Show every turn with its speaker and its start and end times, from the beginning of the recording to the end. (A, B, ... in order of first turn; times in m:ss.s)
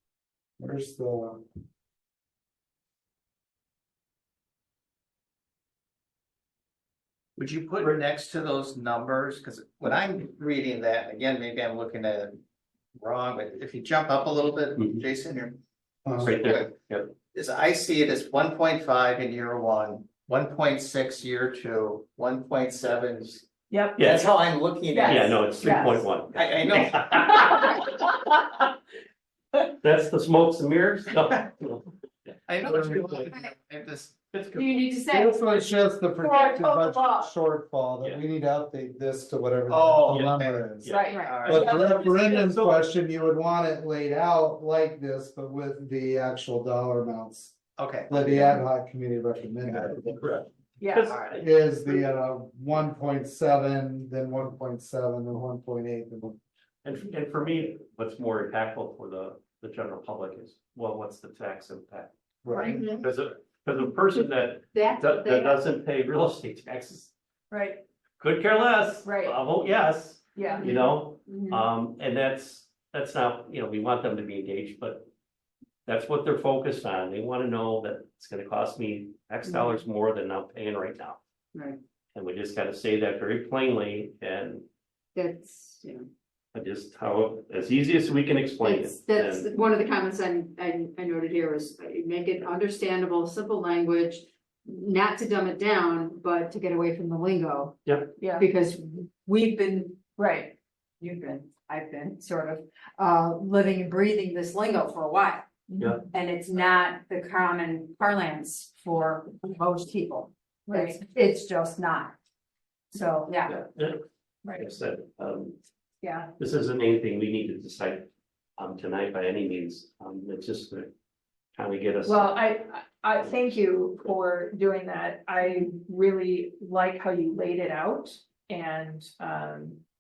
0:00.6-0:01.4 A
0:07.4-0:12.4 B
0:13.0-0:15.6 B
0:16.0-0:16.3 A
0:16.2-0:17.1 C
0:16.2-0:16.7 B
0:17.3-0:23.5 B
0:23.7-0:24.0 D
0:24.0-0:24.3 C
0:24.0-0:25.6 B
0:24.9-0:26.1 D
0:25.0-0:28.1 C
0:26.2-0:28.0 B
0:29.8-0:31.9 C
0:32.5-0:34.3 B
0:32.6-0:33.3 C
0:34.3-0:34.7 C
0:34.5-0:37.3 E
0:35.1-0:40.9 A
0:39.7-0:42.1 B
0:40.1-0:42.8 C
0:40.9-0:42.3 D
0:41.1-0:41.5 E
0:41.4-0:47.6 A
0:47.8-0:48.2 B
0:48.1-0:50.0 A
0:49.7-0:51.5 C
0:50.8-0:51.2 D
0:51.3-0:56.4 A
0:56.8-1:02.1 C
1:02.4-1:02.8 A
1:02.5-1:03.1 E
1:02.8-1:07.1 C
1:04.7-1:05.6 E
1:07.5-1:07.8 D
1:08.2-1:15.1 C
1:09.0-1:09.4 D
1:10.3-1:10.7 D
1:10.5-1:11.7 E
1:15.9-1:21.2 C
1:21.5-1:21.8 E
1:22.1-1:24.7 C
1:25.2-1:26.1 E
1:26.5-1:29.5 C
1:28.6-1:40.2 E
1:37.9-1:38.2 C
1:38.2-1:38.4 D
1:40.2-1:40.5 D
1:41.0-1:45.5 E
1:45.7-1:46.1 D
1:46.1-1:52.2 E
1:50.7-1:51.0 D
1:52.9-1:53.6 E
1:53.5-1:55.6 C
1:56.0-1:56.3 E
1:56.4-2:00.9 C
2:01.6-2:02.4 C
2:02.0-2:09.8 D